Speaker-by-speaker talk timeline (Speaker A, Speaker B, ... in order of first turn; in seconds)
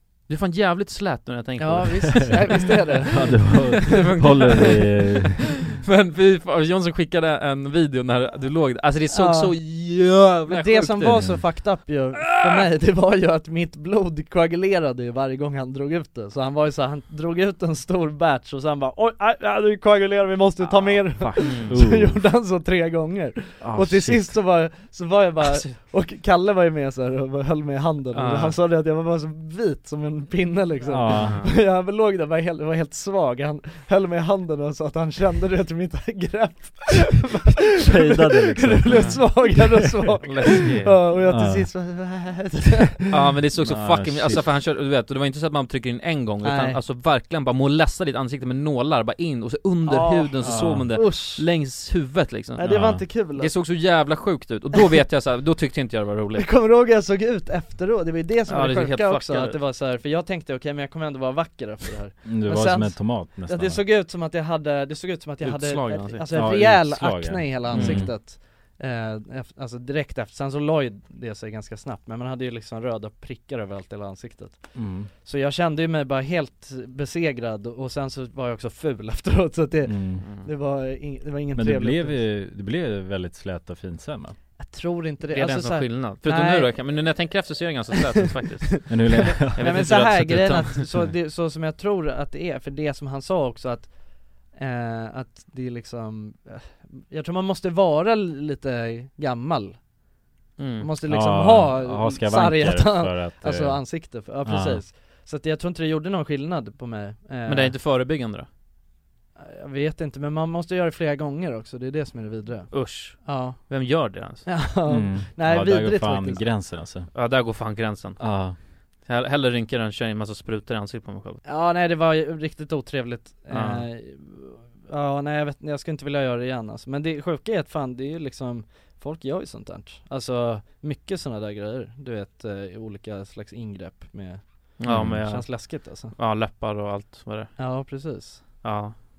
Speaker A: 0.3-2.4, 3.8-4.8, 5.8-11.3, 12.3-12.6, 20.6-21.7, 25.4-25.7, 28.1-28.6, 31.1-31.5, 38.9-39.2, 40.2-41.0, 43.1-56.4, 58.5-59.6, 65.4-66.2, 67.7-68.1, 80.2-80.5, 85.3-88.9, 89.5-90.8, 100.6-100.9, 107.5-108.5, 112.7-114.5, 117.1-118.2, 119.0-121.4, 123.5-123.9, 134.8-137.5, 138.6-138.9
Speaker B: 1.6-4.7, 9.1-9.6, 10.5-43.0, 46.4-46.8, 49.9-51.5, 52.6-53.5, 56.4-82.2, 84.6-86.9, 88.9-99.8, 100.8-107.8, 109.4-113.6, 114.5-116.5, 121.4-136.1, 137.6-138.4
Speaker C: 3.1-5.5, 21.7-22.2, 23.6-24.4, 30.9-31.4, 37.8-39.9, 41.2-41.7, 43.6-44.5, 50.4-50.9, 52.6-53.0, 62.2-63.8, 66.3-68.2, 74.7-75.1, 79.8-80.2, 81.5-84.4, 88.9-90.1, 101.0-104.8, 114.9-117.1, 118.2-118.6, 134.8-135.2